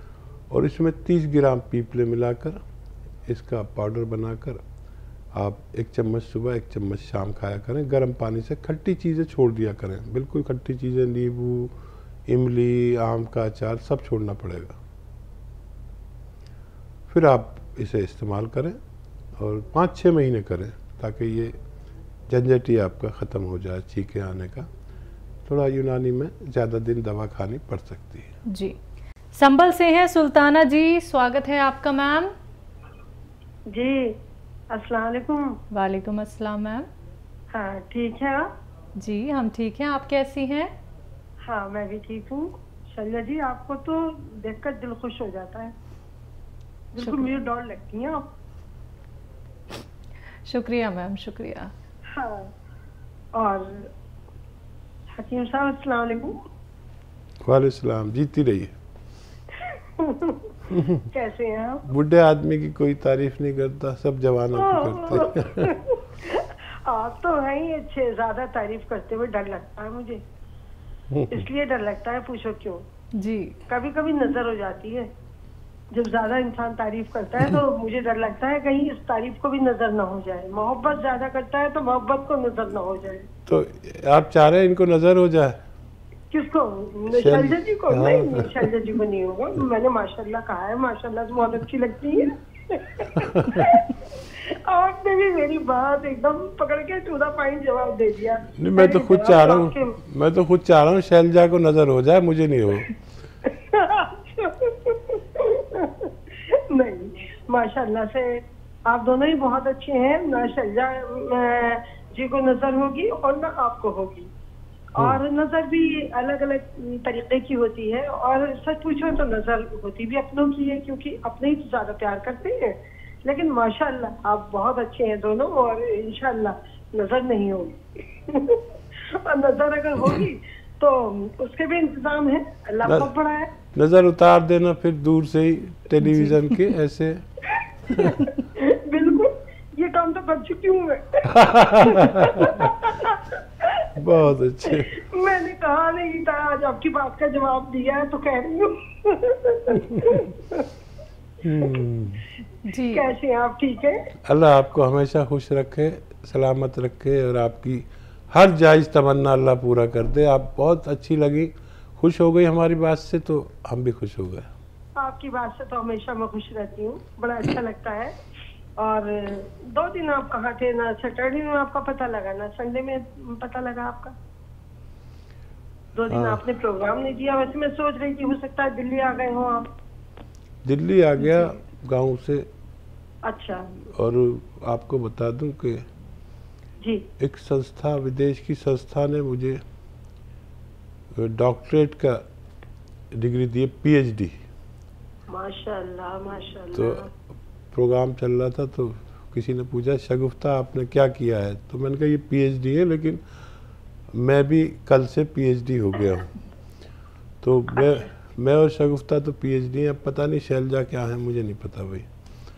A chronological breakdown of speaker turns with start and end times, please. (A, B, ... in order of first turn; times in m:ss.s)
0:00.5-0:02.6 A
0:03.3-0:04.6 A
0:05.3-0:11.7 A
0:12.3-0:14.8 A
0:17.1-0:18.8 A
0:19.4-0:21.6 A
0:22.3-0:24.7 A
0:25.5-0:28.3 A
0:28.5-0:28.8 B
0:29.3-0:32.3 B
0:33.7-0:34.1 C
0:34.7-0:35.6 C
0:35.7-0:36.9 B
0:37.5-0:38.5 C
0:39.0-0:40.7 B
0:41.4-0:45.7 C
0:46.9-0:48.2 C
0:47.0-0:47.3 B
0:50.5-0:51.7 B
0:52.1-0:52.5 C
0:53.3-0:53.9 C
0:55.2-0:56.4 C
0:57.4-0:58.7 A
0:59.7-1:00.5 C
1:01.1-1:01.9 C
1:01.9-1:05.7 A
1:04.5-1:10.2 C
1:11.1-1:11.4 A
1:11.3-1:12.8 C
1:13.1-1:13.6 B
1:13.7-1:15.1 C
1:15.9-1:23.3 C
1:23.5-1:25.6 A
1:26.3-1:40.0 C
1:27.1-1:28.7 A
1:38.6-1:42.9 A
1:43.4-1:54.3 C
1:55.0-2:13.5 C
2:12.8-2:13.1 A
2:13.7-2:17.2 A
2:16.0-2:16.4 B
2:18.0-2:24.0 C
2:21.5-2:21.8 A
2:24.0-2:24.9 A
2:24.6-2:30.7 C
2:31.4-2:32.3 A
2:32.7-2:33.0 B
2:32.8-2:34.0 C
2:34.3-2:44.5 A
2:45.0-2:48.1 C
2:48.8-2:54.2 C
2:55.9-2:59.6 C
2:56.1-2:56.4 A
3:00.6-3:02.5 A
3:01.2-3:01.5 B
3:03.3-3:03.7 C
3:03.9-3:05.8 A
3:07.2-3:09.6 A
3:11.2-3:12.2 A
3:13.1-3:14.4 A
3:15.3-3:17.1 C
3:16.7-3:17.1 A
3:17.7-3:23.2 A
3:24.1-3:26.3 A
3:27.4-3:32.0 A